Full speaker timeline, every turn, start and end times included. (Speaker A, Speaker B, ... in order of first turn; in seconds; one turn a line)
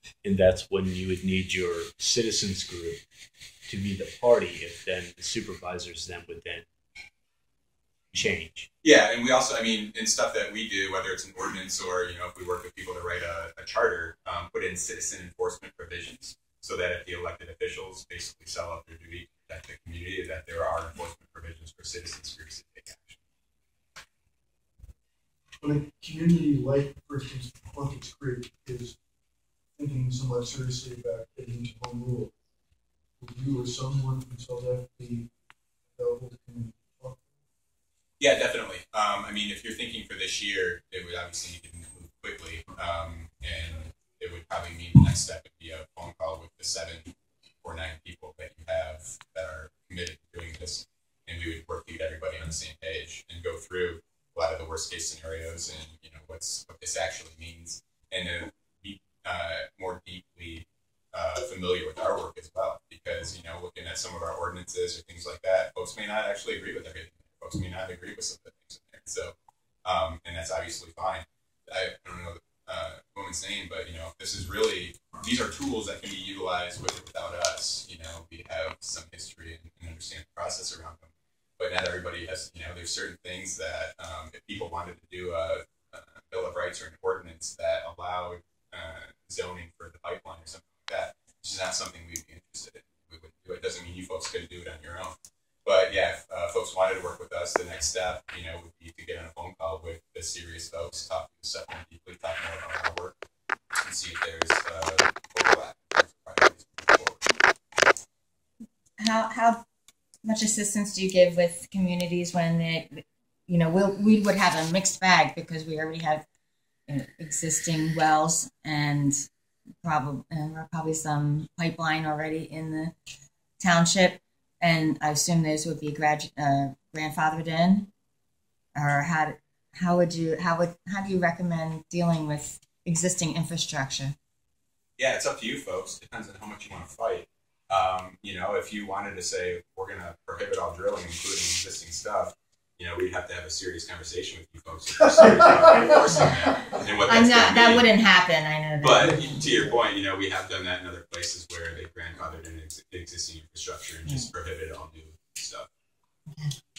Speaker A: 0.2-3.0
Speaker A: 3.7-6.7
Speaker A: 8.1-8.7
Speaker B: 8.8-23.2
Speaker C: 25.6-29.0
Speaker C: 29.8-32.3
Speaker C: 33.2-35.3
Speaker C: 35.9-37.4
Speaker B: 38.2-69.3
Speaker B: 69.8-103.2
Speaker B: 103.8-107.3
Speaker D: 109.0-109.6
Speaker D: 110.2-116.2
Speaker D: 116.9-119.3
Speaker D: 119.8-122.9
Speaker D: 123.6-127.9
Speaker D: 128.8-134.2
Speaker B: 135.0-147.9
Speaker D: 147.1-149.7
Speaker B: 148.8-155.7